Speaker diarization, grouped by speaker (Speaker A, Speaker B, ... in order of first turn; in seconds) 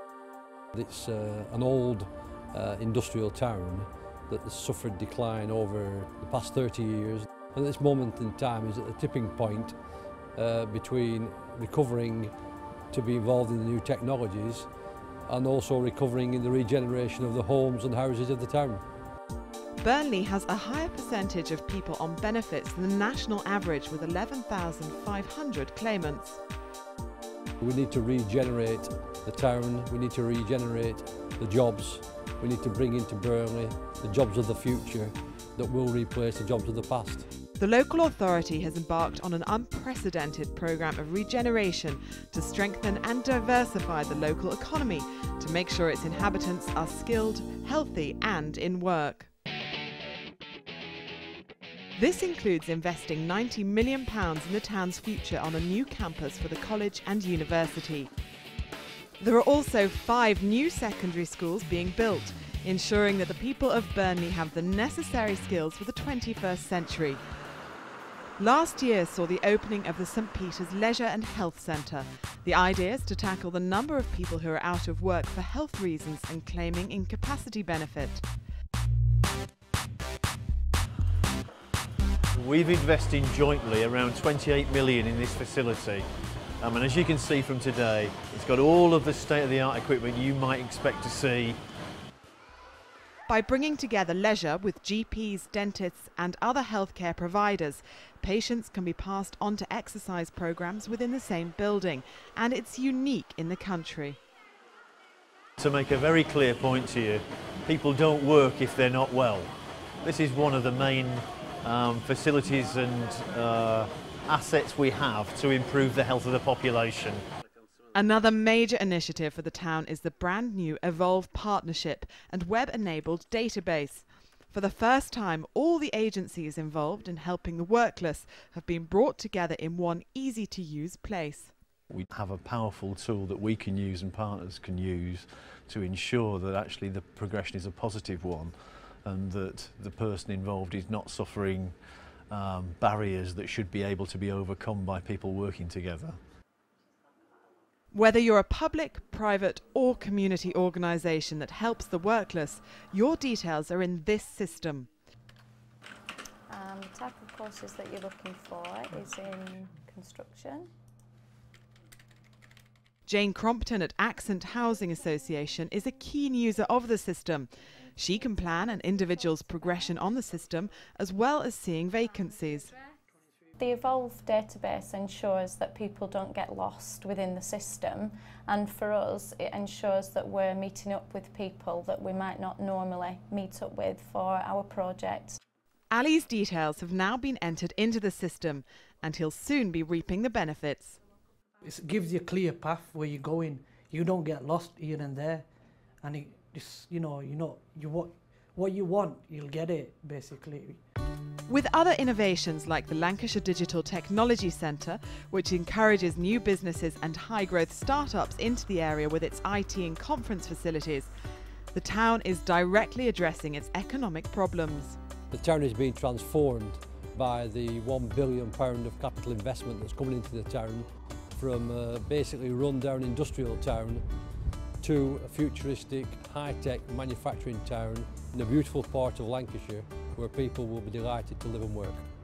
Speaker A: 0.7-9.8, 10.3-12.3, 12.9-14.7, 15.3-18.8, 27.6-37.2, 215.3-224.0, 224.8-232.0
Speaker B: 19.8-26.4, 37.6-49.3, 52.0-58.1, 59.2-67.2, 68.4-78.2, 93.3-104.2, 117.9-131.5, 147.9-154.9, 163.1-172.8, 185.9-191.0, 201.5-211.1, 211.7-215.0
Speaker C: 82.3-86.1, 86.6-91.6, 105.6-117.2, 131.9-138.5, 139.0-141.8, 142.3-146.2
Speaker D: 156.5-160.7, 173.6-185.4
Speaker E: 191.6-195.4, 196.0-200.8